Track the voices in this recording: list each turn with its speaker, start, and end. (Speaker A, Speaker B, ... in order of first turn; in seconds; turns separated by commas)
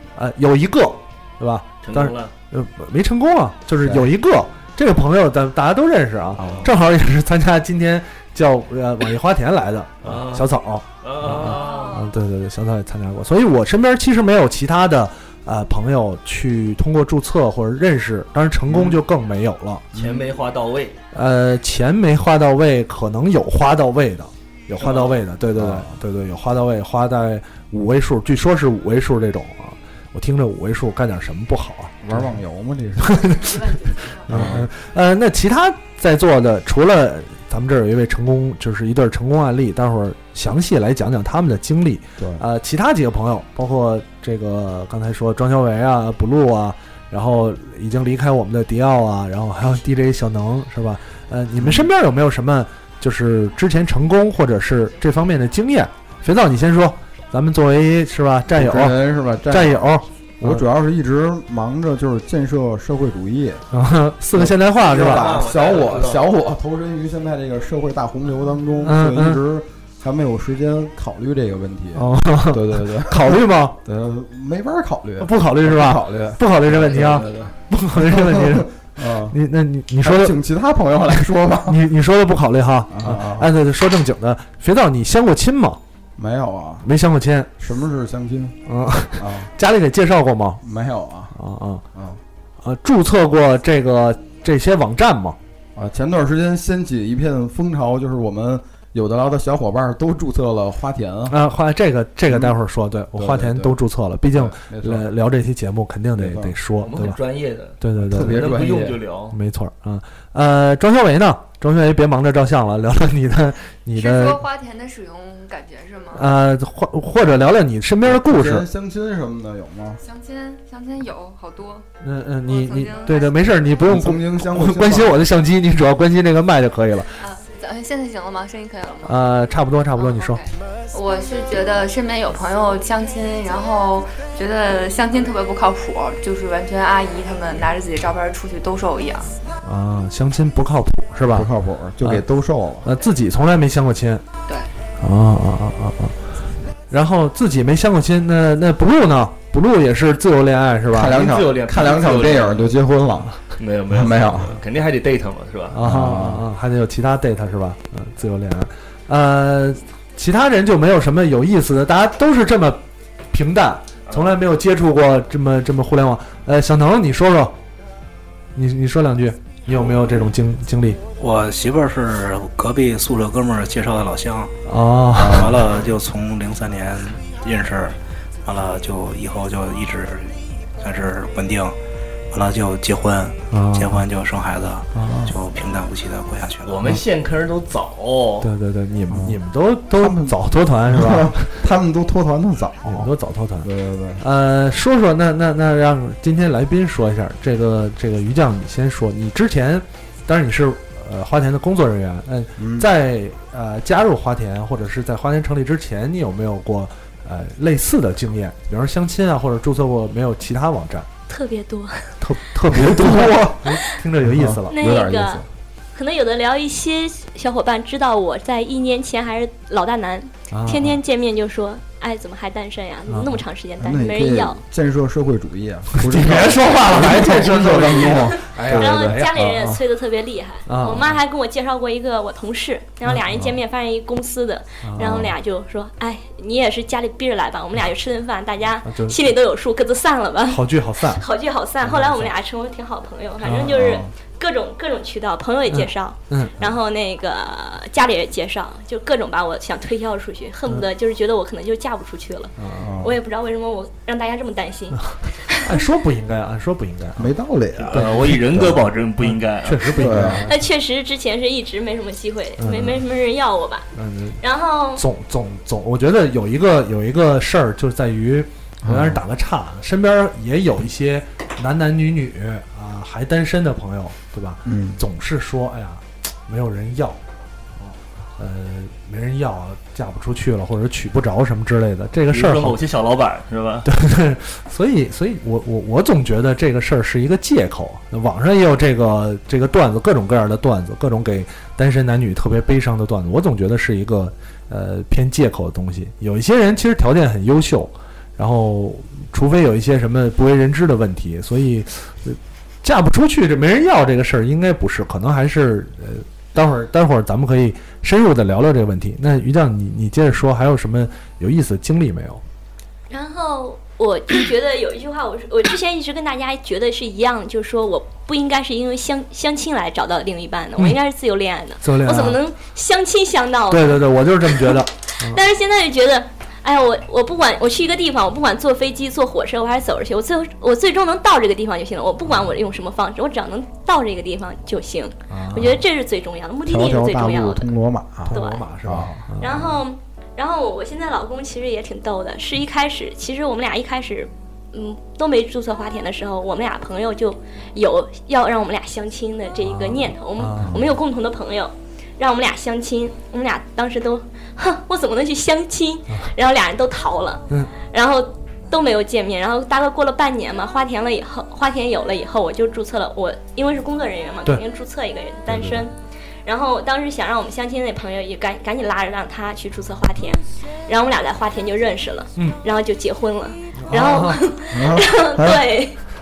Speaker A: 0.1-19.9, Speaker B: 1.8-2.3, Speaker C: 3.8-4.1, Speaker C: 6.4-6.7, Speaker B: 6.4-6.7, Speaker B: 10.0-10.5, Speaker B: 11.0-12.0, Speaker D: 11.6-11.9, Speaker C: 18.7-19.0, Speaker B: 19.9-21.0, Speaker A: 21.1-32.0, Speaker B: 24.8-25.2, Speaker C: 25.5-25.9, Speaker C: 32.0-33.3, Speaker A: 33.0-33.6, Speaker D: 33.2-34.4, Speaker A: 34.3-60.6, Speaker C: 34.3-34.7, Speaker C: 42.2-42.4, Speaker C: 51.6-51.9, Speaker C: 58.5-59.9, Speaker C: 60.4-63.6, Speaker A: 63.7-65.3, Speaker C: 64.3-79.3, Speaker B: 64.8-66.3, Speaker A: 68.8-69.4, Speaker A: 71.9-73.8, Speaker A: 75.2-78.7, Speaker A: 79.3-80.4, Speaker C: 80.0-81.8, Speaker A: 81.7-85.8, Speaker C: 82.9-83.5, Speaker C: 86.2-86.9, Speaker A: 86.8-87.5, Speaker C: 87.6-88.6, Speaker A: 88.7-90.6, Speaker C: 89.2-89.5, Speaker C: 90.6-91.3, Speaker A: 91.3-91.8, Speaker C: 91.9-92.2, Speaker A: 92.6-95.4, Speaker C: 95.8-101.4, Speaker A: 101.3-107.2, Speaker C: 102.3-102.6, Speaker C: 103.1-103.8, Speaker C: 104.3-105.1, Speaker C: 106.2-106.5, Speaker B: 106.8-109.3, Speaker A: 107.8-108.6, Speaker C: 108.1-109.0, Speaker A: 109.3-114.4, Speaker D: 113.9-116.3, Speaker A: 116.1-118.7, Speaker C: 118.0-120.0, Speaker D: 120.0-121.8, Speaker A: 122.0-127.1, Speaker D: 122.4-123.5, Speaker C: 123.8-125.2, Speaker D: 127.2-129.2, Speaker A: 129.0-130.4, Speaker D: 129.9-139.3, Speaker A: 139.6-141.5, Speaker C: 141.3-142.9, Speaker A: 142.8-144.2, Speaker A: 145.0-146.2, Speaker A: 146.9-151.2, Speaker C: 150.9-153.3, Speaker B: 151.0-152.7, Speaker B: 153.6-155.8, Speaker C: 153.9-154.6, Speaker A: 155.7-167.5, Speaker C: 155.8-156.4, Speaker B: 164.1-164.4, Speaker A: 168.5-171.0, Speaker E: 171.2-174.5, Speaker A: 174.7-175.5, Speaker C: 175.2-175.6, Speaker E: 175.2-181.8, Speaker E: 182.3-186.9, Speaker A: 183.5-184.0, Speaker B: 186.6-188.5, Speaker A: 188.4-191.6, Speaker C: 189.1-189.4, Speaker C: 190.0-193.1, Speaker A: 192.8-193.7, Speaker C: 193.6-194.2, Speaker A: 194.2-211.1, Speaker C: 202.6-202.9, Speaker F: 211.3-212.1, Speaker A: 212.2-214.8, Speaker C: 212.7-213.7, Speaker C: 214.2-215.4, Speaker F: 214.7-215.4, Speaker F: 215.9-224.6, Speaker A: 220.5-221.0, Speaker A: 223.1-223.4, Speaker C: 223.8-229.8, Speaker A: 225.9-229.3, Speaker F: 228.1-255.7, Speaker A: 230.7-231.1, Speaker A: 233.1-233.5, Speaker A: 234.8-235.3, Speaker A: 238.8-239.2, Speaker A: 240.5-241.2, Speaker A: 241.8-242.3, Speaker A: 243.4-243.9, Speaker C: 243.7-244.1, Speaker A: 245.7-246.7, Speaker A: 252.6-252.8, Speaker C: 252.8-253.2, Speaker A: 255.6-257.3, Speaker C: 257.2-258.8, Speaker B: 257.8-260.3, Speaker A: 257.9-260.6, Speaker C: 260.0-260.5, Speaker F: 260.5-263.9, Speaker A: 262.6-263.0, Speaker A: 263.9-264.4, Speaker F: 264.4-265.0, Speaker A: 264.9-277.2, Speaker C: 268.8-269.2, Speaker C: 274.6-275.0, Speaker A: 277.9-282.8, Speaker B: 282.3-283.9, Speaker A: 283.8-312.4, Speaker F: 313.1-337.7, Speaker A: 321.8-322.4, Speaker A: 323.7-325.4, Speaker A: 335.3-335.8, Speaker C: 336.6-339.2, Speaker A: 338.3-339.7, Speaker F: 338.3-338.6, Speaker F: 339.4-365.9, Speaker A: 349.6-350.8, Speaker F: 366.4-376.0, Speaker A: 373.8-374.5, Speaker C: 374.7-375.7